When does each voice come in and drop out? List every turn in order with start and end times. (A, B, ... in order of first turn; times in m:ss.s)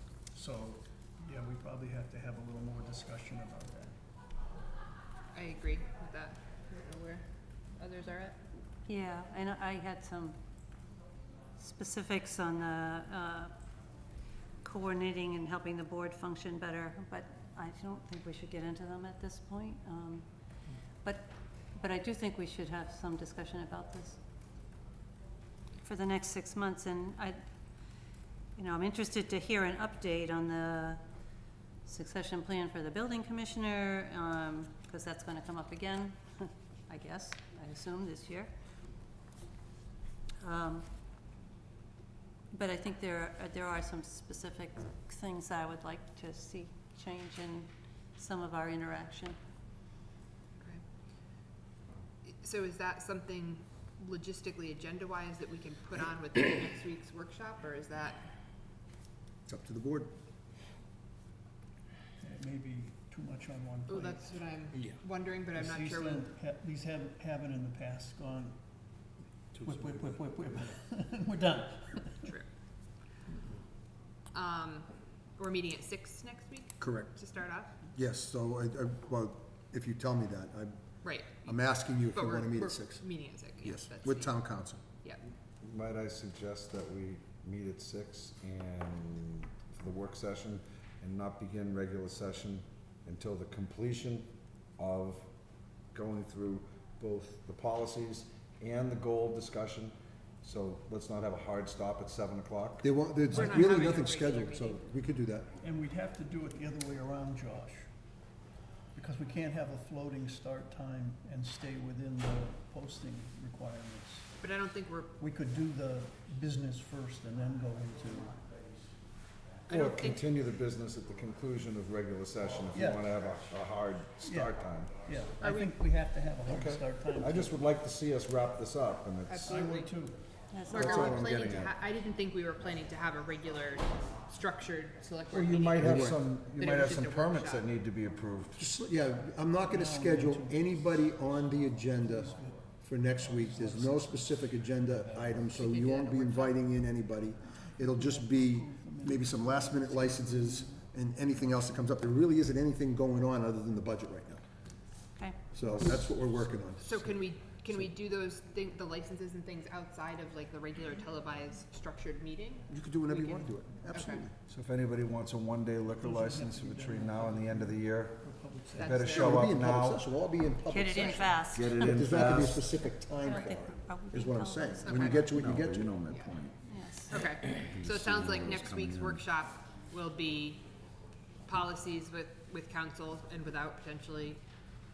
0:00.3-0:03.9 A
0:05.3-0:07.2 B
0:07.8-0:08.4 B
0:08.8-0:10.4 C
0:11.6-0:13.5 C
0:14.6-0:20.2 C
0:21.0-0:24.2 C
0:25.8-0:27.4 C
0:28.6-0:31.0 C
0:31.8-0:38.5 C
0:40.4-0:40.8 C
0:42.5-0:49.4 C
0:52.2-0:58.2 B
0:59.4-1:00.1 D
1:02.2-1:04.4 A
1:03.9-1:06.2 B
1:05.5-1:08.6 A
1:09.6-1:12.2 A
1:14.3-1:17.8 B
1:16.8-1:17.1 D
1:17.9-1:20.8 D
1:21.0-1:21.6 B
1:21.4-1:23.1 D
1:22.1-1:24.4 B
1:23.6-1:24.8 D
1:25.6-1:35.3 E
1:35.9-1:42.9 E
1:42.8-1:45.5 D
1:43.3-1:44.8 B
1:43.3-1:43.9 A
1:45.6-1:47.9 A
1:48.9-1:54.4 A
1:54.4-1:55.1 B
1:55.2-1:58.4 A
1:59.7-2:00.2 B
1:59.7-2:04.9 E
2:02.7-2:03.1 A
2:04.2-2:07.6 A
2:05.4-2:05.8 B
2:06.4-2:09.5 E
2:09.2-2:10.0 B
2:09.4-2:10.2 A
2:10.5-2:11.2 C
2:10.7-2:17.7 B
2:10.8-2:11.8 E
2:15.3-2:18.7 E
2:15.8-2:16.2 D
2:18.6-2:34.4 D
2:19.7-2:20.8 A
2:22.0-2:22.6 A
2:23.3-2:25.5 A
2:25.5-2:26.6 B
2:27.6-2:30.8 A
2:35.5-2:37.0 D
2:36.8-2:44.2 B
2:42.7-2:44.3 D
2:44.4-2:48.2 E
2:46.0-2:49.2 A
2:48.7-2:49.4 B
2:48.8-2:50.0 E
2:49.0-2:56.0 D
2:50.7-2:51.8 C
2:51.5-2:52.7 E
2:52.7-2:55.4 C
2:54.8-2:55.3 B
2:55.2-2:56.6 E
2:56.1-2:56.4 B
2:56.5-2:57.3 C
2:57.1-3:00.6 B
2:57.3-2:59.2 E
3:01.4-3:04.4 B